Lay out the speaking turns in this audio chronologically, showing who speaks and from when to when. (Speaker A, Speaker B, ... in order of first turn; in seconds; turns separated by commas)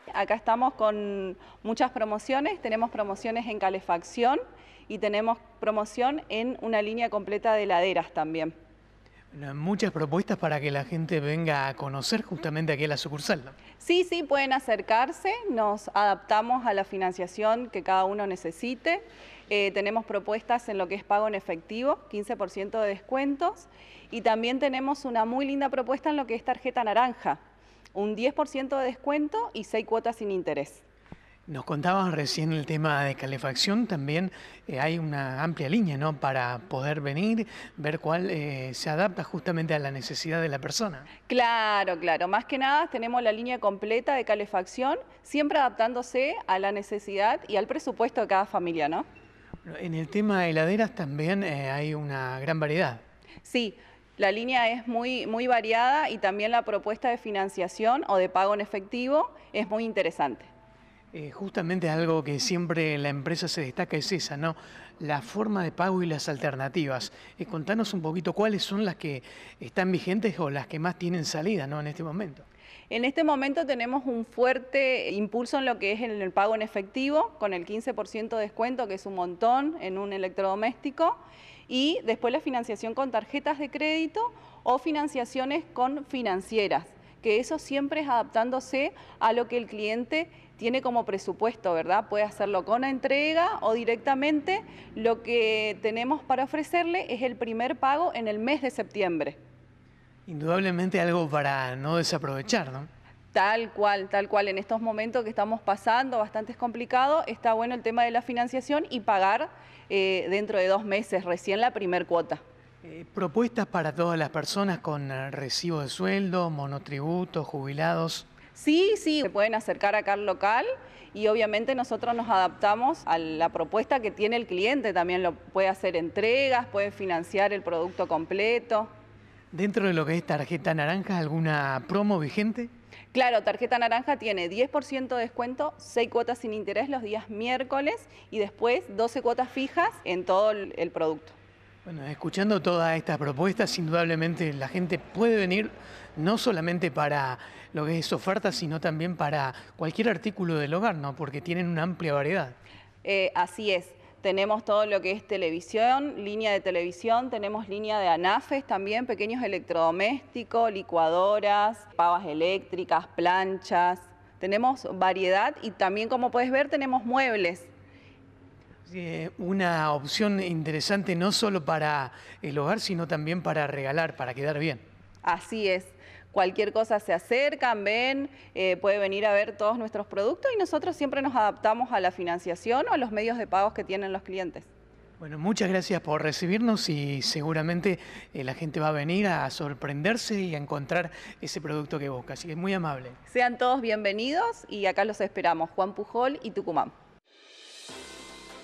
Speaker A: 0.1-8.5, Speaker B: 9.3-13.5, Speaker A: 13.8-27.4, Speaker A: 27.9-30.8, Speaker B: 31.5-41.1, Speaker A: 41.3-49.0, Speaker B: 49.6-53.0, Speaker A: 53.4-60.5, Speaker B: 61.1-72.5, Speaker A: 72.9-99.4, Speaker B: 100.3-102.9, Speaker A: 103.3-112.4, Speaker B: 112.8-118.2, Speaker A: 118.5-128.9, Speaker B: 129.5-132.7, Speaker A: 133.1-141.3, Speaker B: 141.8-152.6, Speaker A: 153.0-167.7, Speaker B: 168.8-174.8, Speaker A: 175.2-184.7, Speaker B: 185.2-193.2, Speaker A: 193.3-196.9